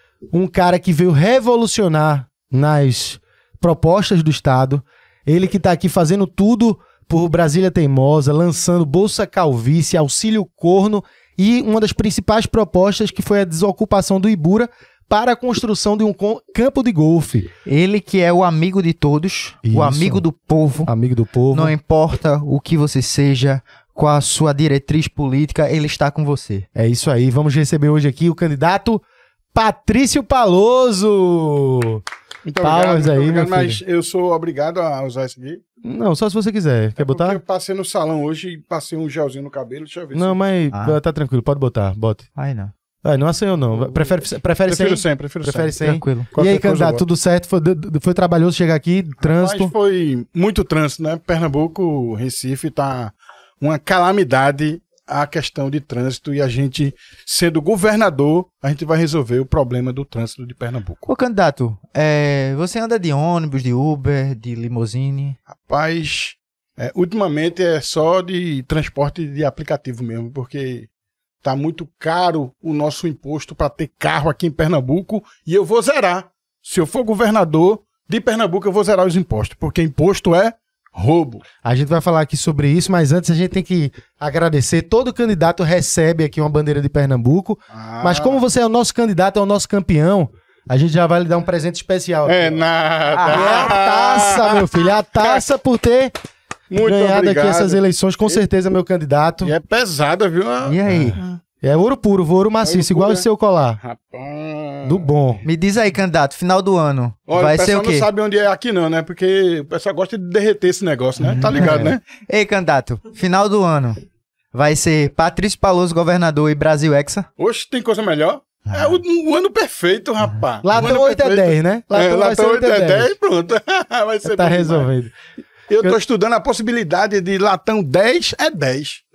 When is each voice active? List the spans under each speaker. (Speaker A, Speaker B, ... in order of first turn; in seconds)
Speaker A: 0.3-17.5, 19.6-20.2, 20.9-21.8, 26.7-29.0, 29.5-32.0, 32.6-33.8, 35.8-37.4, 40.1-42.3, 43.0-49.7, 81.6-92.6, 93.2-96.1, 96.8-99.5, 100.9-103.8, 104.8-105.5, 111.4-112.0, 120.6-123.1, 124.2-125.1
Speaker B: 17.6-20.9, 21.5-26.6, 40.7-41.0, 42.4-42.7, 45.8-46.3, 61.0-65.4, 93.1-93.8, 100.6-101.2, 105.4-108.1, 111.2-114.0, 114.5-117.3, 118.7-119.0
Speaker C: 32.4-35.6, 37.0-40.4, 44.7-47.0, 49.2-61.0, 65.5-70.9, 71.4-81.4, 87.7-88.4, 92.2-94.6, 96.7-98.4, 99.4-101.4, 102.6-103.2, 103.8-105.1, 107.3-112.0, 117.4-124.9, 125.7-129.1